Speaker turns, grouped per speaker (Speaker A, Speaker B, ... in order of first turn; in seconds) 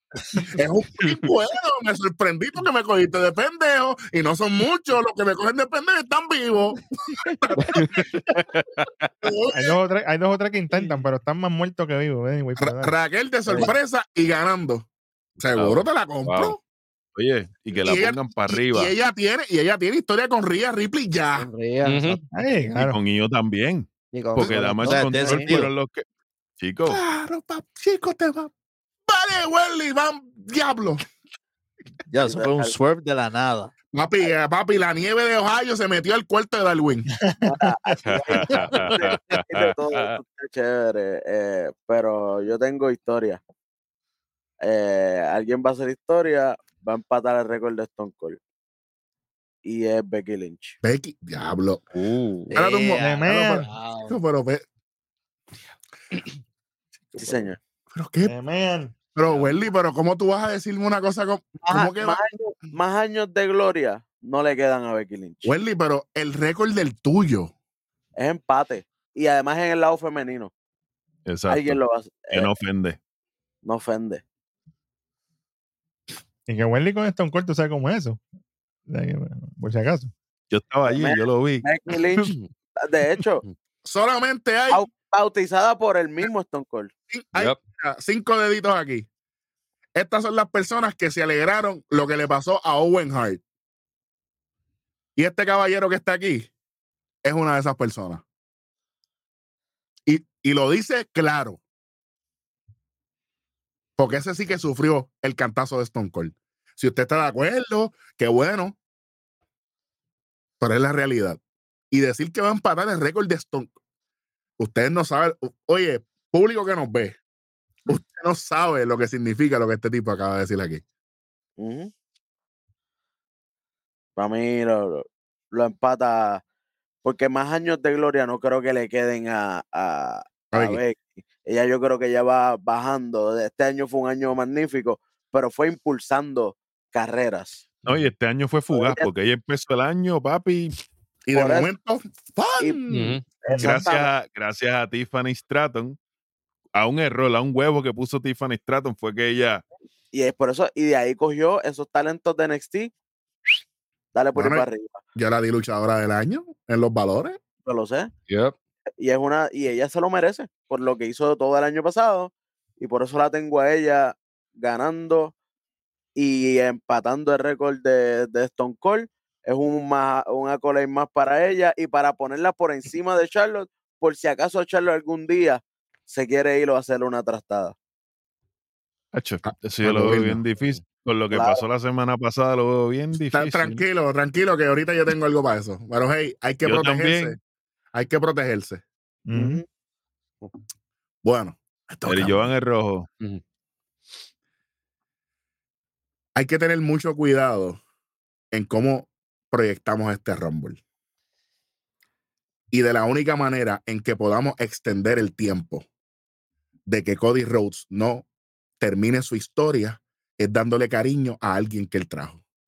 Speaker A: 0.5-8.1, 9.2-9.8, 12.6-14.9, 15.4-16.6, 17.7-21.5, 26.9-28.5, 29.1-31.0, 33.9-37.1, 50.8-51.8, 52.5-54.6, 57.9-58.3, 59.1-62.2, 65.5-67.5, 83.8-84.9, 87.1-89.1, 90.0-93.4, 95.2-96.5, 97.2-98.2, 100.1-101.6, 104.0-108.8, 110.6-111.4, 111.9-113.7, 114.6-117.2, 117.9-120.8, 130.5-130.8, 141.3-143.2, 154.3-157.4, 179.4-180.4, 183.3-187.4, 187.9-188.8, 191.2-192.5, 196.4-197.8, 198.5-200.8, 202.7-205.9, 206.9-208.3, 208.8-212.4
Speaker B: 7.8-9.1, 16.2-16.6, 21.8-22.2, 38.0-40.2, 51.9-52.5, 142.9-143.2, 158.3-158.6
Speaker C: 9.5-12.9, 22.3-23.0, 37.2-38.0, 53.0-53.6, 58.3-58.9, 76.5-78.2, 78.9-80.1, 143.5-143.8, 189.3-189.6
Speaker D: 15.6-15.8, 17.2-18.9, 22.8-26.0, 26.6-27.0, 71.3-71.8, 72.3-73.0, 80.5-81.7, 137.9-140.7, 143.6-146.0, 146.8-149.6, 179.1-183.8, 186.6-187.4, 192.1-193.1
Speaker E: 21.4-22.2, 24.1-25.5
Speaker F: 24.9-25.7, 32.1-33.7, 52.5-54.1
Speaker G: 32.2-32.7, 37.5-43.4, 44.6-48.4, 49.6-50.8, 57.2-57.6, 61.7-65.5, 68.2-70.5, 71.5-72.5, 73.6-74.2, 80.9-83.4, 84.7-86.9, 121.6-121.9, 124.2-126.4, 127.0-137.7, 138.7-139.1, 141.3-141.7, 143.4-144.1, 150.1-152.9, 154.1-155.0, 157.7-158.1, 159.0-165.3, 166.2-177.8, 181.3-181.6, 189.3-189.6